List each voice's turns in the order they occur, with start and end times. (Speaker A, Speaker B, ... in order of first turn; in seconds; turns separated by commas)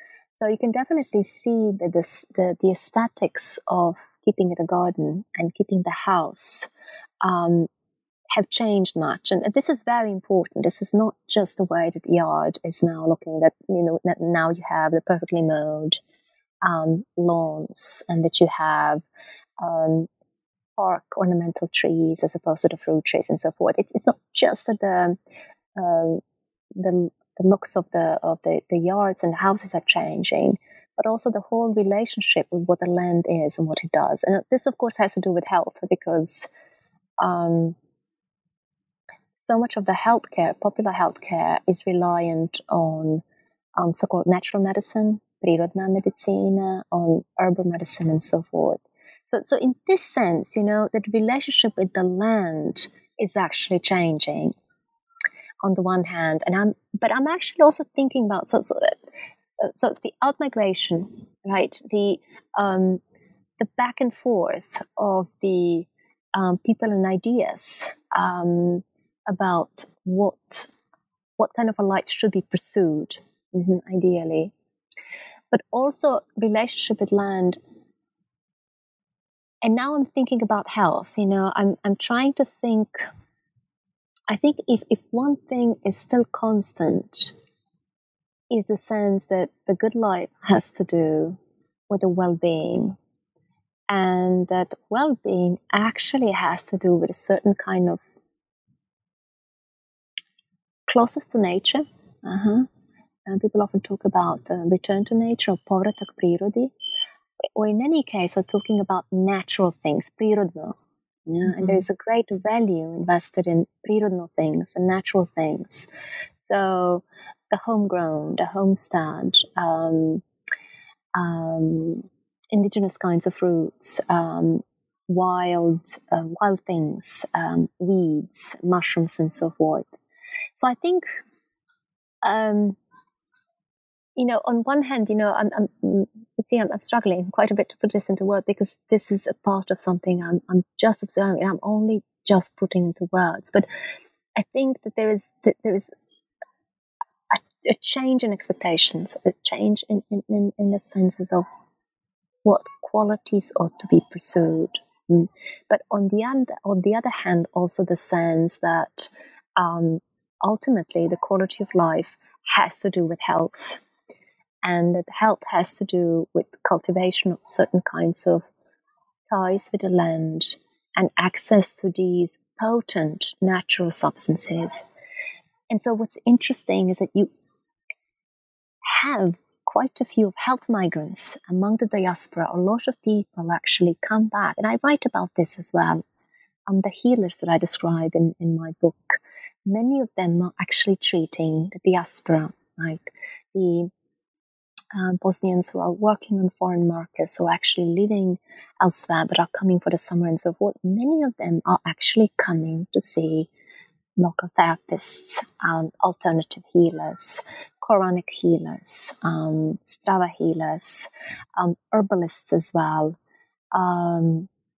Speaker A: 0.4-6.7, Speaker A: 7.2-7.7, Speaker A: 8.3-16.0, Speaker A: 16.6-19.0, Speaker A: 19.6-20.1, Speaker A: 20.8-25.2, Speaker A: 25.8-26.2, Speaker A: 26.7-36.5, Speaker A: 37.2-37.8, Speaker A: 39.4-43.2, Speaker A: 43.8-54.5, Speaker A: 55.6-59.0, Speaker A: 59.6-63.0, Speaker A: 63.6-70.7, Speaker A: 71.4-74.5, Speaker A: 75.5-77.6, Speaker A: 79.6-83.1, Speaker A: 84.3-87.3, Speaker A: 88.5-91.4, Speaker A: 91.9-93.0, Speaker A: 93.9-98.0, Speaker A: 100.9-102.7, Speaker A: 103.3-106.7, Speaker A: 107.6-115.9, Speaker A: 116.4-120.2, Speaker A: 121.2-129.9, Speaker A: 130.6-131.1, Speaker A: 132.2-132.8, Speaker A: 134.2-143.7, Speaker A: 144.4-145.9, Speaker A: 147.3-151.4, Speaker A: 152.4-163.8, Speaker A: 164.6-168.4, Speaker A: 169.3-174.8, Speaker A: 175.7-177.3, Speaker A: 178.8-186.0, Speaker A: 186.7-193.9, Speaker A: 194.9-203.5, Speaker A: 204.2-213.2, Speaker A: 213.7-214.5